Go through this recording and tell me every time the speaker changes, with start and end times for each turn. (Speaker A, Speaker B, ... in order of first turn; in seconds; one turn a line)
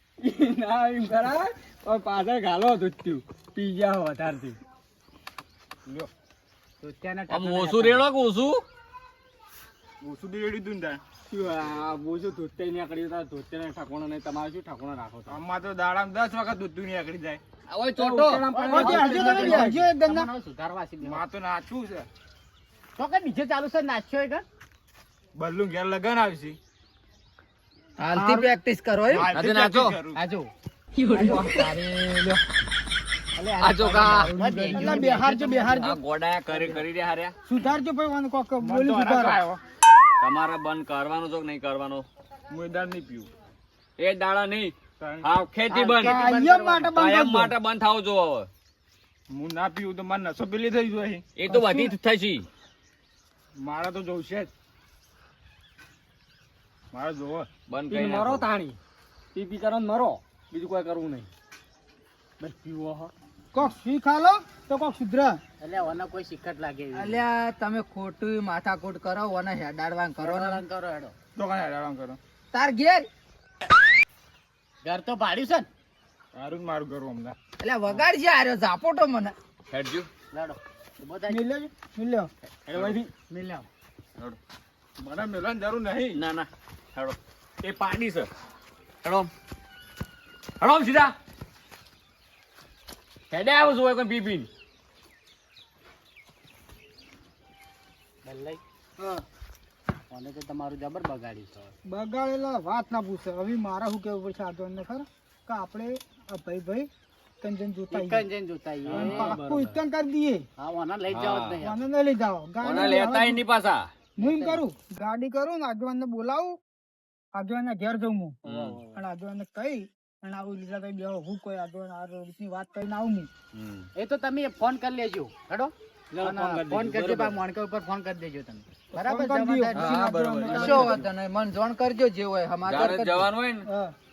Speaker A: 0.2-4.6
Speaker B: 6.8-8.1
Speaker C: 7.3-8.7
Speaker D: 10.0-11.0
Speaker A: 11.3-15.4
Speaker D: 15.3-17.4
Speaker C: 17.7-18.5
Speaker A: 18.0-19.8
Speaker B: 18.5-21.2
Speaker E: 18.7-20.3
Speaker D: 21.0-22.1
Speaker B: 23.0-24.4
Speaker D: 25.4-26.6
Speaker F: 28.0-29.3
Speaker E: 28.1-28.5
Speaker D: 29.1-30.2
Speaker C: 29.3-30.0
Speaker B: 30.1-30.5
Speaker F: 31.1-32.4
Speaker C: 31.1-31.5
Speaker C: 33.6-34.3
Speaker F: 33.6-34.8
Speaker B: 33.9-35.9
Speaker E: 34.7-36.0
Speaker C: 35.8-37.4
Speaker E: 37.5-39.4
Speaker D: 38.6-39.6
Speaker C: 40.2-42.1
Speaker D: 42.5-43.3
Speaker C: 44.0-46.3
Speaker D: 45.0-45.3
Speaker B: 45.7-47.0
Speaker E: 46.0-47.5
Speaker C: 47.0-48.5
Speaker D: 49.3-51.3
Speaker C: 51.4-52.5
Speaker E: 51.5-52.0
Speaker D: 53.6-54.5
Speaker D: 56.9-57.5
Speaker C: 57.7-58.5
Speaker A: 57.9-58.8
Speaker A: 59.4-61.3
Speaker A: 62.4-63.1
Speaker E: 63.5-65.4
Speaker B: 65.6-67.2
Speaker F: 66.9-70.6
Speaker B: 70.2-71.1
Speaker D: 71.4-72.2
Speaker F: 72.5-73.1
Speaker B: 74.8-75.7
Speaker D: 76.3-77.4
Speaker F: 77.6-79.3
Speaker C: 79.7-80.1
Speaker B: 80.3-81.4
Speaker E: 81.3-82.3
Speaker A: 82.7-83.1
Speaker C: 82.7-83.0
Speaker B: 83.3-83.7
Speaker D: 85.0-86.2
Speaker C: 86.1-88.3
Speaker C: 89.0-89.3
Speaker C: 90.6-91.2
Speaker C: 93.3-94.5
Speaker B: 98.2-98.6
Speaker E: 99.0-99.2
Speaker B: 100.1-101.7
Speaker E: 101.8-106.9
Speaker E: 107.4-108.2
Speaker B: 107.9-109.4
Speaker A: 108.9-109.8
Speaker E: 108.9-110.5
Speaker B: 110.6-111.9
Speaker C: 111.1-111.6
Speaker E: 111.6-113.4
Speaker C: 112.6-113.9
Speaker B: 114.2-114.6
Speaker E: 114.2-116.6
Speaker E: 117.3-118.4
Speaker C: 118.5-118.8
Speaker A: 118.5-118.9
Speaker E: 118.9-123.3
Speaker C: 123.5-123.9
Speaker B: 124.0-131.1
Speaker A: 126.1-127.4
Speaker E: 128.9-131.0
Speaker C: 129.8-130.9
Speaker F: 130.4-133.3
Speaker C: 132.7-133.7
Speaker E: 133.7-133.9